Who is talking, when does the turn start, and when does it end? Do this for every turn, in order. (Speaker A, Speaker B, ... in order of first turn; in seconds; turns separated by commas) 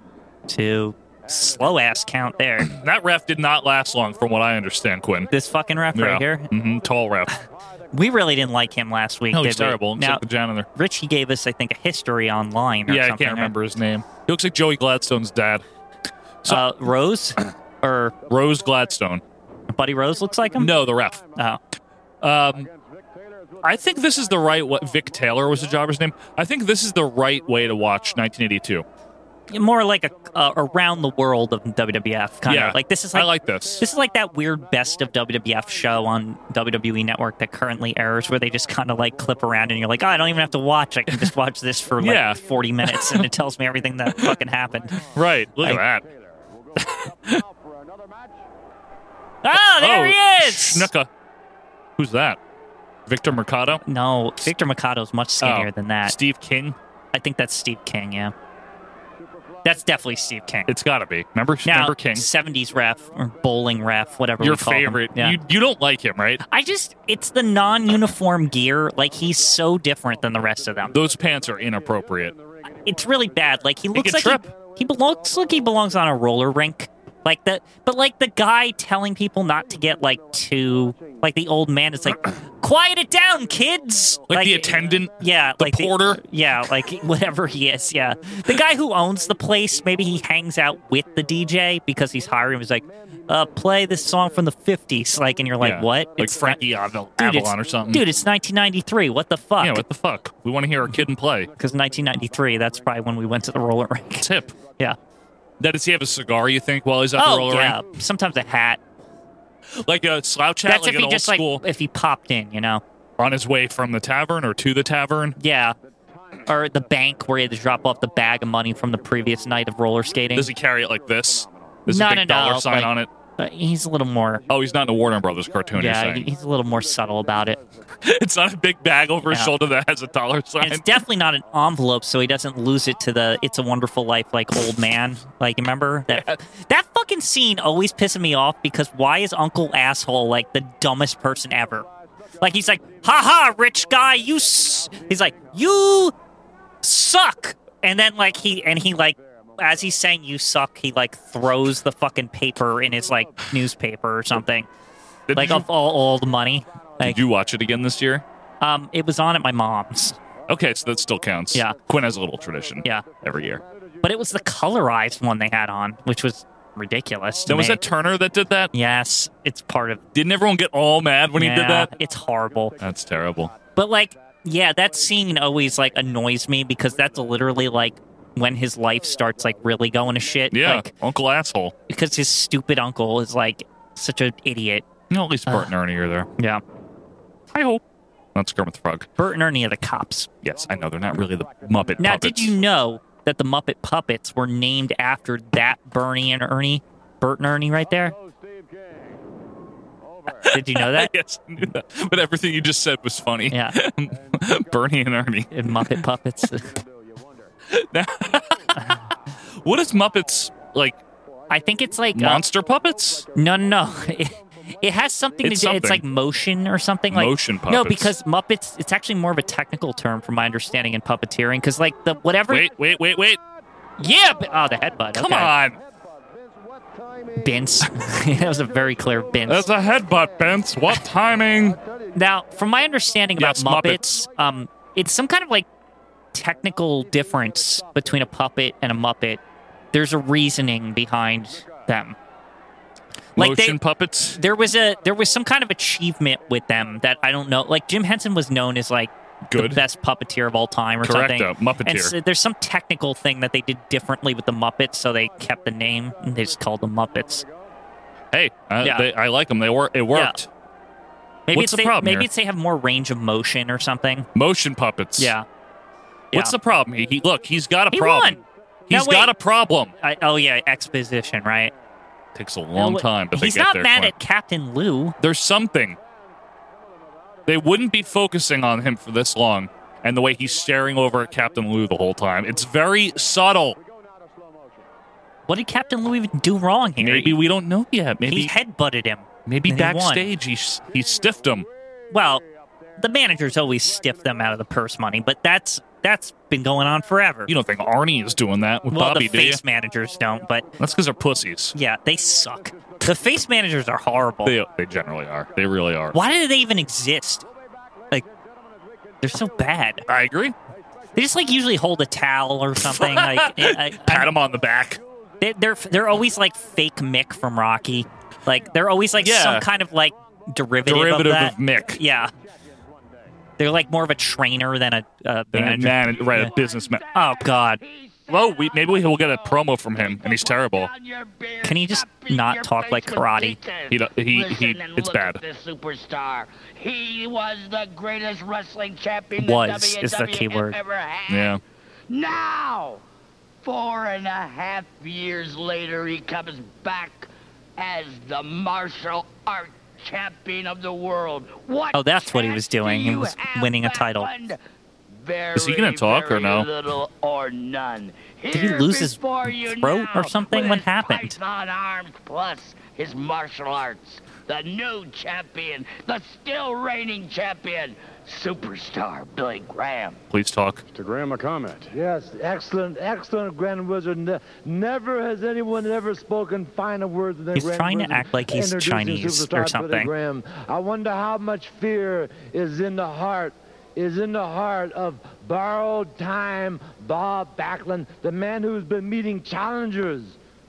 Speaker A: 0.5-2.7, Speaker B: 2.6-5.3, Speaker A: 5.3-6.5, Speaker B: 5.9-7.3, Speaker A: 7.9-10.2, Speaker B: 9.3-10.7, Speaker A: 10.7-13.5, Speaker B: 12.9-15.6, Speaker A: 16.5-18.1, Speaker B: 18.3-19.2, Speaker A: 19.7-20.8, Speaker B: 20.6-21.2, Speaker B: 22.2-22.7, Speaker B: 23.6-28.9, Speaker A: 29.5-45.1, Speaker B: 32.5-33.8, Speaker B: 42.0-43.3, Speaker B: 44.1-44.4, Speaker B: 45.0-46.1, Speaker C: 46.1-48.3, Speaker B: 46.8-47.4, Speaker A: 49.4-50.9, Speaker B: 49.5-51.1, Speaker B: 52.0-52.4, Speaker B: 53.1-53.8, Speaker A: 53.8-56.1, Speaker B: 55.4-56.8, Speaker A: 57.1-58.3, Speaker A: 59.6-60.7, Speaker B: 60.7-62.3, Speaker A: 61.6-65.4, Speaker B: 64.4-66.4, Speaker A: 66.4-71.0, Speaker B: 70.9-72.4, Speaker A: 72.8-96.6, Speaker B: 73.9-74.5, Speaker B: 84.3-86.2, Speaker B: 95.6-98.0, Speaker A: 97.2-99.8, Speaker B: 99.6-101.5, Speaker A: 101.6-105.0, Speaker B: 104.2-104.5, Speaker B: 105.6-107.8, Speaker A: 107.2-108.8, Speaker B: 109.7-111.6, Speaker A: 110.7-112.8, Speaker B: 113.2-115.4, Speaker A: 115.4-115.8, Speaker A: 116.5-120.5, Speaker B: 120.3-123.1, Speaker A: 121.9-124.4, Speaker B: 124.5-126.3, Speaker A: 125.7-127.6, Speaker B: 128.0-131.1, Speaker A: 129.2-129.5, Speaker A: 130.6-141.9, Speaker A: 142.4-146.1, Speaker A: 146.8-154.7, Speaker B: 155.3-155.7, Speaker A: 155.3-157.2, Speaker B: 157.0-158.2, Speaker A: 158.6-160.2, Speaker B: 160.5-163.6, Speaker A: 164.0-167.8, Speaker B: 167.4-168.7, Speaker A: 168.7-170.0, Speaker B: 170.1-171.9, Speaker A: 171.4-172.8, Speaker B: 172.8-173.5, Speaker A: 173.7-180.9, Speaker B: 180.5-181.7, Speaker A: 181.9-184.9, Speaker B: 185.1-186.3, Speaker A: 185.5-185.7, Speaker B: 187.5-187.8, Speaker B: 188.3-189.1, Speaker A: 189.2-190.3, Speaker B: 190.4-192.6, Speaker C: 190.5-192.1, Speaker A: 192.0-198.1, Speaker C: 197.9-199.2, Speaker C: 200.0-200.5, Speaker B: 200.2-206.1, Speaker A: 200.5-201.1, Speaker A: 203.5-203.8, Speaker A: 205.5-206.8, Speaker C: 206.7-207.5, Speaker B: 207.7-211.0, Speaker A: 211.5-212.4, Speaker B: 212.1-213.3, Speaker A: 213.3-222.7, Speaker B: 215.4-216.1, Speaker B: 217.1-218.1, Speaker B: 222.5-223.4, Speaker A: 224.0-225.5, Speaker B: 225.1-225.8, Speaker A: 227.3-229.7, Speaker B: 229.4-231.8, Speaker A: 232.1-235.7, Speaker B: 233.4-234.2, Speaker A: 236.3-239.4, Speaker A: 239.9-242.2, Speaker B: 243.4-244.4, Speaker A: 243.4-257.4, Speaker B: 249.5-249.8, Speaker B: 251.0-252.1, Speaker B: 258.3-260.5, Speaker A: 258.8-259.1, Speaker A: 261.5-264.3, Speaker B: 261.5-262.3, Speaker B: 264.3-265.3, Speaker A: 265.2-265.4, Speaker B: 266.3-269.9, Speaker A: 267.9-269.3, Speaker A: 270.0-271.7, Speaker B: 272.3-274.1, Speaker A: 272.7-275.1, Speaker B: 275.2-276.0, Speaker B: 277.5-283.8, Speaker C: 283.7-284.9, Speaker A: 285.5-287.4, Speaker B: 287.0-288.6, Speaker A: 288.2-290.3, Speaker B: 289.4-291.7, Speaker C: 292.1-292.4, Speaker A: 292.1-292.4, Speaker A: 293.0-297.5, Speaker B: 297.5-299.6, Speaker A: 298.9-300.7, Speaker B: 300.8-301.7, Speaker A: 301.7-304.6, Speaker C: 302.8-303.3, Speaker B: 304.4-306.2, Speaker A: 306.1-307.4, Speaker C: 307.6-309.3, Speaker A: 309.2-310.1, Speaker B: 310.1-310.6, Speaker C: 310.8-311.2, Speaker A: 311.1-314.3, Speaker B: 312.8-315.0, Speaker C: 315.0-315.4, Speaker A: 315.4-322.3, Speaker B: 319.2-319.7, Speaker B: 320.8-322.0, Speaker C: 322.4-323.2, Speaker A: 323.6-326.5, Speaker B: 325.5-327.0, Speaker D: 326.3-343.0, Speaker A: 327.1-327.8, Speaker B: 328.3-330.9, Speaker A: 331.6-333.6, Speaker B: 333.9-335.4, Speaker A: 339.4-340.8, Speaker B: 341.3-341.6, Speaker D: 343.6-354.6, Speaker A: 351.9-354.3, Speaker D: 355.1-370.2, Speaker B: 355.6-356.7, Speaker A: 358.5-361.4, Speaker B: 370.3-370.8, Speaker C: 370.9-371.9, Speaker E: 371.9-390.4, Speaker A: 377.6-380.1